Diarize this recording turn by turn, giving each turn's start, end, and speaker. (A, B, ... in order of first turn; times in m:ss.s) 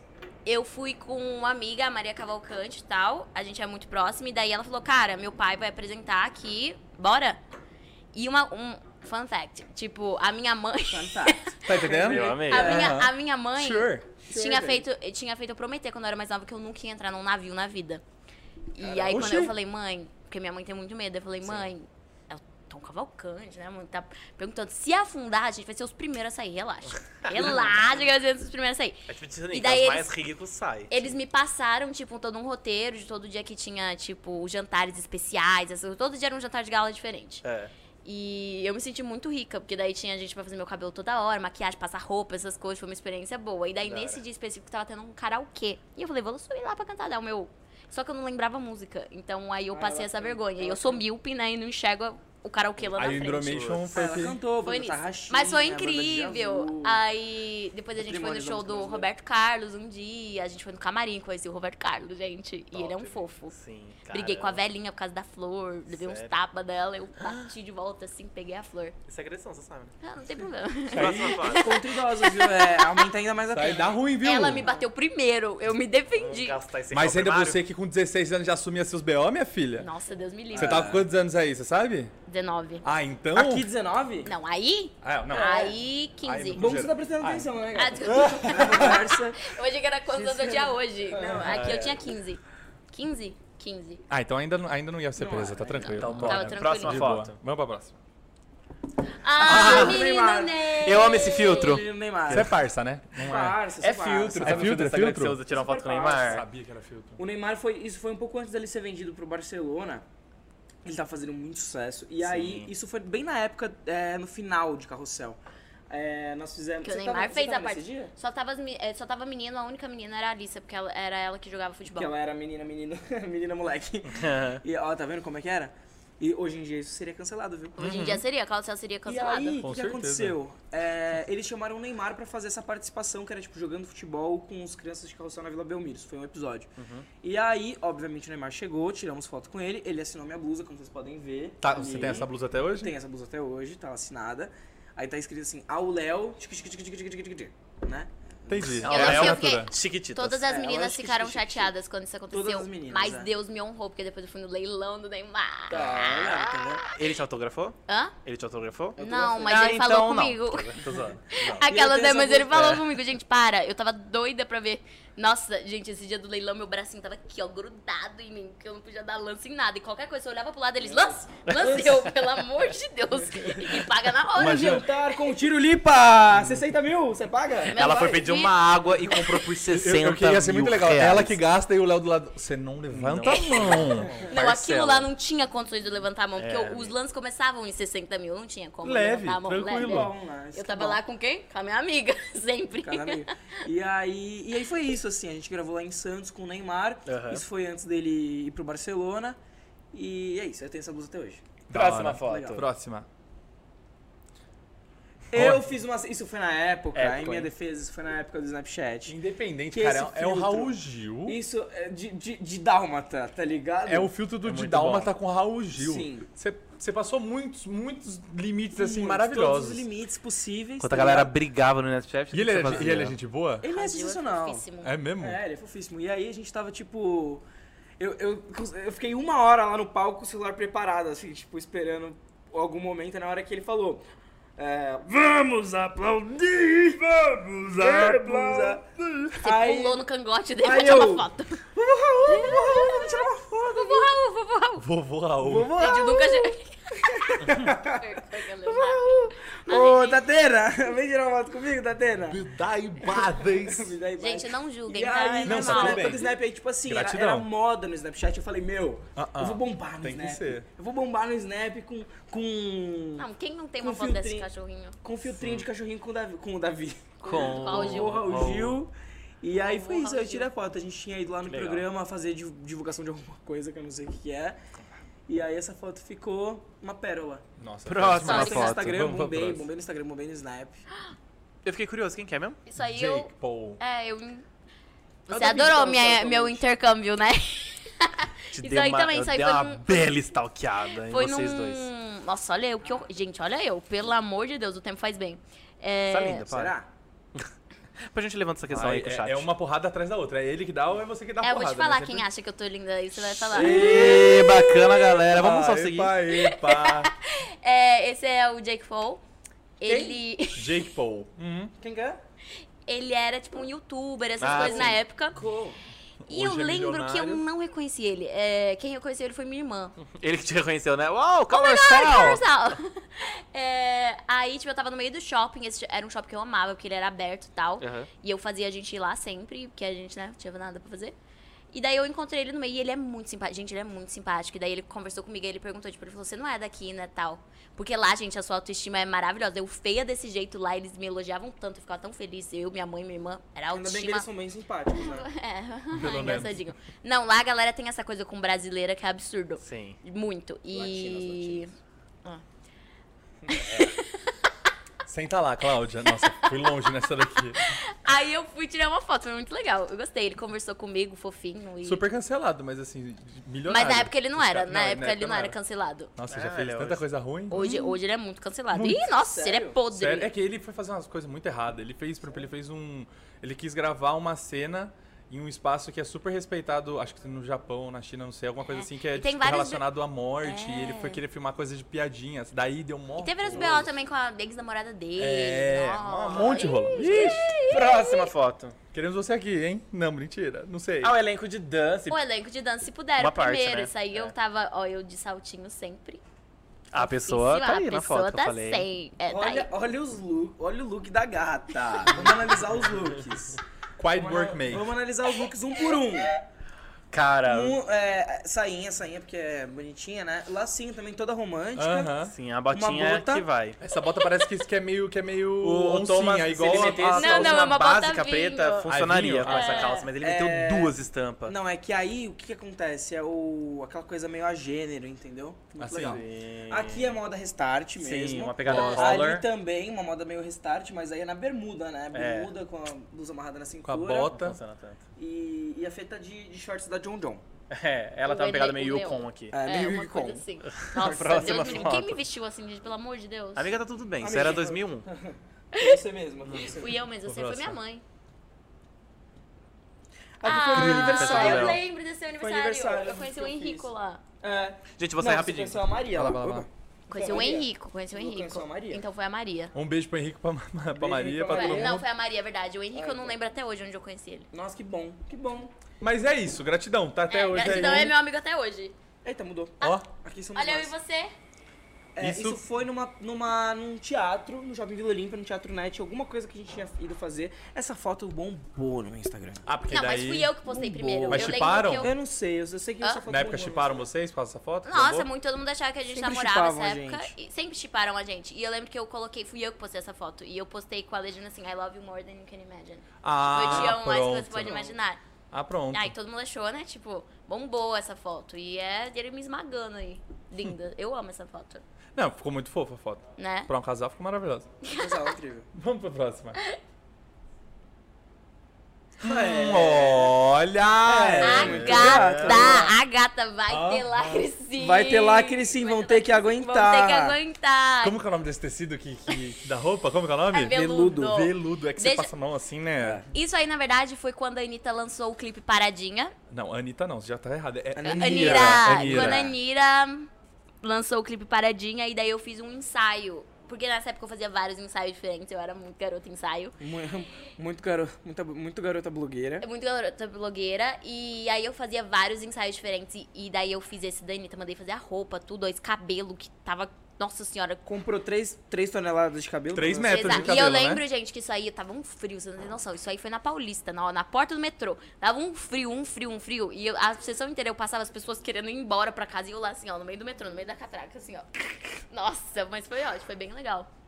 0:00.4-0:07.4 A
0:08.1-0:18.0 A
0:10.9-0:13.0 B
0:11.6-0:14.0 C
0:12.0-0:12.8 D
0:14.2-0:14.8 B
0:18.7-0:30.1 A
0:18.8-0:19.4 B
0:19.1-0:19.5 C
0:21.4-0:21.7 D
0:27.1-0:27.7 D
0:29.1-0:31.1 D
0:30.9-0:37.4 A
0:37.4-0:37.7 D
0:38.0-0:53.8 A
0:43.8-0:44.2 D
0:49.7-0:51.0 B
0:52.8-0:54.0 D
0:53.0-0:54.4 C
0:53.9-0:57.0 B
0:54.6-1:03.5 A
0:58.0-0:59.1 B
1:02.7-1:04.6 D
1:04.1-1:09.0 A
1:05.9-1:06.3 D
1:09.1-1:09.9 D
1:10.0-1:13.1 A
1:10.9-1:11.7 D
1:10.9-1:11.4 C
1:11.6-1:14.0 B
1:13.5-1:14.7 C
1:14.2-1:16.6 A
1:16.1-1:17.6 D
1:16.9-1:19.9 C
1:19.8-1:20.9 A
1:20.5-1:21.1 B
1:20.5-1:22.1 C
1:22.3-1:22.8 A
1:22.8-1:23.7 C
1:23.3-1:24.3 B
1:24.2-1:26.7 A
1:25.0-1:25.6 C
1:25.3-1:25.8 B
1:26.2-1:27.5 C
1:26.5-1:29.4 B
1:27.7-1:34.0 A
1:28.1-1:29.0 C
1:30.1-1:31.7 B
1:31.4-1:32.0 D
1:34.1-1:38.0 C
1:35.2-1:36.0 B
1:35.7-1:37.2 A
1:36.0-1:37.4 D
1:39.2-1:41.8 A
1:39.4-1:42.6 B
1:39.5-1:40.0 D
1:40.8-1:42.5 D
1:42.3-1:43.6 C
1:43.2-1:46.4 B
1:43.8-1:46.4 D
1:44.4-1:45.4 C
1:46.2-1:47.2 C
1:47.2-1:50.0 B
1:50.8-1:58.1 B
1:52.2-1:52.7 D
1:56.8-2:02.1 A
2:01.9-2:07.9 B
2:04.1-2:04.6 D
2:07.8-2:09.6 A
2:07.8-2:08.2 D
2:09.0-2:28.9 B
2:09.6-2:10.4 C
2:16.8-2:17.1 D
2:21.6-2:22.9 C
2:21.9-2:22.3 D
2:28.5-2:29.7 C
2:28.8-2:30.4 D
2:28.9-2:36.7 A
2:30.4-2:31.7 B
2:32.3-2:33.3 B
2:35.7-2:36.8 B
2:35.7-2:41.6 D
2:37.9-2:38.1 A
2:39.0-2:39.7 B
2:39.0-2:55.2 A
2:41.5-2:42.7 B
2:42.5-2:42.8 D
2:50.8-2:52.1 B
2:53.3-2:53.8 B
2:54.3-2:58.2 B
2:54.3-2:54.8 C
2:57.7-2:58.5 A
2:57.7-3:01.4 D
2:59.6-3:04.2 C
3:02.9-3:05.1 D
3:03.3-3:13.3 A
3:06.4-3:06.9 D
3:08.8-3:10.1 C
3:09.8-3:11.0 B
3:12.8-3:19.4 B
3:17.1-3:17.4 D
3:19.9-3:21.4 B
3:21.7-3:23.1 C
3:21.7-3:22.6 D
3:22.2-3:22.6 B
3:25.3-3:29.2 B
3:25.3-3:25.7 C
3:26.9-3:27.5 D
3:29.1-3:31.4 C
3:29.7-3:30.7 B
3:31.2-3:34.1 B
3:33.8-3:39.8 C
3:34.4-3:35.1 D
3:35.7-3:36.2 B
3:38.8-3:41.3 B
3:40.8-3:43.2 D
3:42.3-3:43.6 C
3:42.7-3:43.0 B
3:43.6-3:44.6 B
3:43.6-3:44.9 A
3:44.8-3:45.4 C
3:45.2-3:47.4 B
3:48.0-3:54.0 B
3:54.6-4:00.0 B
3:57.8-3:58.8 C
3:59.4-4:01.6 A
4:00.6-4:04.1 B
4:02.3-4:04.8 A
4:04.8-4:05.7 C
4:05.4-4:08.0 B
4:05.8-4:10.2 A
4:08.6-4:12.5 B
4:12.2-4:13.9 C
4:13.0-4:23.3 B
4:14.2-4:16.2 A
4:15.4-4:16.3 C
4:16.8-4:17.5 C
4:19.2-4:20.6 C
4:23.2-4:25.0 A
4:23.8-4:24.5 B
4:25.0-4:34.6 B
4:25.4-4:25.6 D
4:27.2-4:28.2 A
4:27.2-4:28.8 D
4:29.5-4:30.5 A
4:31.4-4:31.9 D
4:35.3-4:37.4 B
4:37.6-4:39.6 C
4:37.8-4:39.1 D
4:38.2-4:40.8 B
4:38.2-4:38.8 A
4:41.6-4:42.6 D
4:42.7-4:44.4 A
4:42.8-4:43.8 C
4:45.3-4:50.1 A
4:45.3-4:46.6 B
4:48.5-4:51.9 D
4:50.8-4:56.5 A
4:56.1-4:56.7 D
4:56.5-4:56.9 B
4:58.0-4:59.5 D
4:58.7-5:02.2 C
5:01.4-5:05.2 A
5:03.5-5:04.3 C
5:03.5-5:06.1 D
5:05.3-5:07.1 C
5:06.3-5:09.2 A
5:09.8-5:10.8 A
5:09.8-5:10.2 B
5:10.5-5:11.7 C
5:11.8-5:12.2 B
5:12.8-5:15.4 A
5:14.4-5:15.0 D
5:14.5-5:15.8 B
5:16.2-5:17.4 C
5:16.3-5:20.0 A
5:20.0-5:22.4 D
5:21.5-5:31.2 A
5:27.8-5:28.1 D
5:31.7-5:44.3 A
5:43.7-5:45.3 B
5:44.9-5:51.7 A
5:45.9-5:46.6 C
5:49.6-5:50.0 D
5:50.7-5:51.7 B
5:53.4-5:53.9 D
5:53.5-5:54.3 A
5:55.0-5:57.6 C
5:56.0-5:56.9 A
5:57.6-6:02.0 A
6:01.8-6:05.5 C
6:03.7-6:06.1 A
6:06.2-6:07.7 C
6:06.3-6:07.0 D
6:07.5-6:10.3 A
6:08.7-6:09.0 C
6:09.2-6:09.8 B
6:09.9-6:23.9 C
6:18.7-6:19.8 A
6:20.4-6:21.2 A
6:23.2-6:28.3 A
6:23.5-6:23.8 D
6:25.2-6:27.6 C
6:26.3-6:28.7 D
6:28.9-6:31.2 C
6:31.0-6:32.2 D
6:32.1-6:36.2 A
6:33.2-6:34.3 D
6:36.9-6:38.8 D
6:37.0-6:39.7 A
6:39.3-6:43.6 B
6:44.0-6:44.9 C
6:44.1-6:46.4 B
6:47.1-6:47.8 D
6:47.4-6:52.2 B
6:51.7-6:52.3 C
6:52.3-6:53.8 D
6:52.7-6:53.4 B
6:53.8-6:57.6 C
6:55.6-7:01.5 D
6:56.6-6:57.7 B
6:56.9-6:58.9 A
6:58.8-7:00.0 C
6:59.4-7:00.1 A
7:00.2-7:14.4 B
7:05.8-7:06.2 C
7:06.0-7:07.2 D
7:07.9-7:09.5 D
7:08.6-7:09.4 C
7:12.1-7:12.5 D
7:13.8-7:14.6 C
7:14.3-7:15.0 D
7:15.2-7:17.4 B
7:17.7-7:19.6 D
7:18.2-7:23.7 A
7:19.5-7:20.4 B
7:20.7-7:22.2 D
7:21.0-7:21.9 B
7:23.6-7:25.0 D
7:24.2-7:27.0 B
7:26.6-7:28.0 A
7:27.2-7:27.8 C
7:30.4-7:31.8 B
7:30.4-7:34.2 A
7:30.6-7:31.3 C
7:30.8-7:31.8 D
7:32.4-7:33.9 B
7:34.4-7:39.0 B
7:35.0-7:35.8 D
7:36.1-7:36.7 C
7:37.1-7:39.7 A
7:39.7-7:42.0 C
7:40.9-7:42.0 B
7:41.5-7:44.5 A
7:42.9-7:43.4 B
7:44.5-7:45.7 B
7:46.0-7:48.1 C
7:47.3-7:48.9 A
7:47.6-7:48.0 B
7:49.2-7:50.9 B
7:49.8-7:50.1 C
7:50.5-7:51.3 A
7:52.2-7:59.7 B
7:52.2-7:52.6 C
7:59.6-8:00.5 C
7:59.9-8:02.1 A
8:00.7-8:04.1 B
8:01.2-8:02.1 C
8:03.3-8:05.3 C
8:04.8-8:15.2 A
8:06.1-8:07.3 B
8:13.2-8:14.9 C
8:13.6-8:14.0 B
8:15.5-8:16.1 C
8:15.9-8:21.8 A
8:22.1-8:24.7 C
8:23.4-8:23.7 A
8:24.8-8:25.3 A
8:24.9-8:25.7 B
8:25.7-8:26.6 C
8:29.2-8:32.9 C
8:29.2-8:30.3 B
8:31.0-8:32.9 B
8:31.4-8:38.2 A
8:33.7-8:34.5 C
8:34.8-8:37.4 B
8:38.0-8:43.2 C
8:40.5-8:42.3 A
8:43.0-8:43.3 B
8:43.3-8:46.3 A
8:46.5-8:49.5 C
8:47.9-8:49.5 B
8:48.0-8:50.3 A
8:50.8-8:56.8 A
8:56.8-8:59.6 B
8:59.6-9:07.8 A
9:07.8-9:10.6 B
9:09.7-9:11.0 C
9:10.0-9:23.9 A